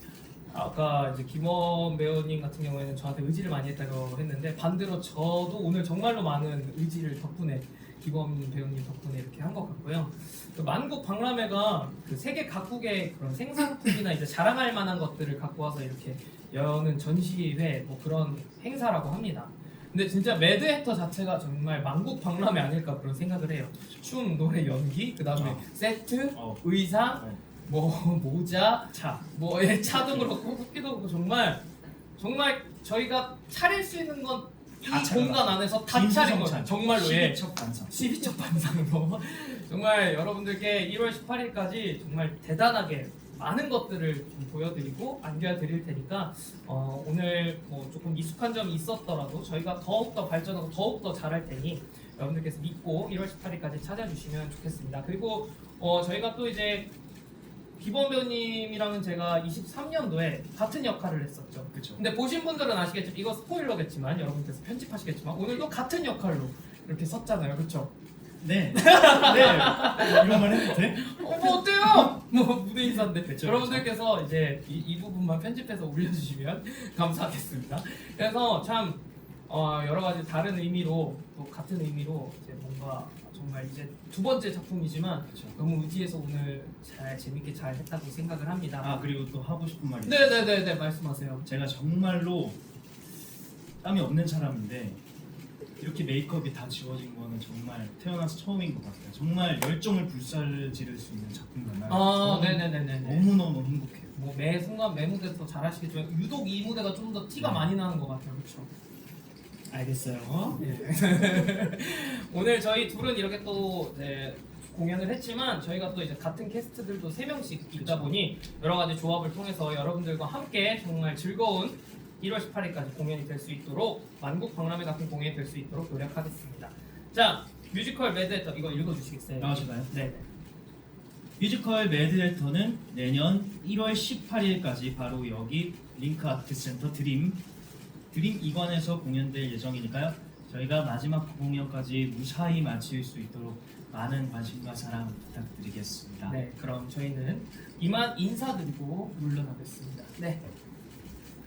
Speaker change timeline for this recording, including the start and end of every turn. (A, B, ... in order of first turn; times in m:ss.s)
0:00.5-0:31.6 A
0:25.3-0:25.6 B
0:26.3-0:26.6 B
0:27.2-0:27.4 B
0:28.9-0:29.2 B
0:30.0-0:30.3 B
0:32.2-0:56.9 A
0:34.8-0:37.9 B
0:57.8-1:07.9 A
1:01.7-1:02.0 B
1:08.4-1:12.1 B
1:08.7-1:29.0 A
1:12.8-1:13.9 B
1:25.3-1:25.6 B
1:28.8-1:30.6 B
1:30.0-1:31.5 A
1:31.4-1:32.6 B
1:33.8-1:35.0 B
1:35.8-1:44.1 B
1:41.9-1:43.3 A
1:44.1-1:48.7 A
1:47.4-1:47.7 B
1:49.7-2:10.2 A
1:57.8-1:58.1 B
2:09.4-2:09.9 B
2:11.4-2:17.4 B
2:18.1-2:26.4 B
2:26.3-2:30.4 A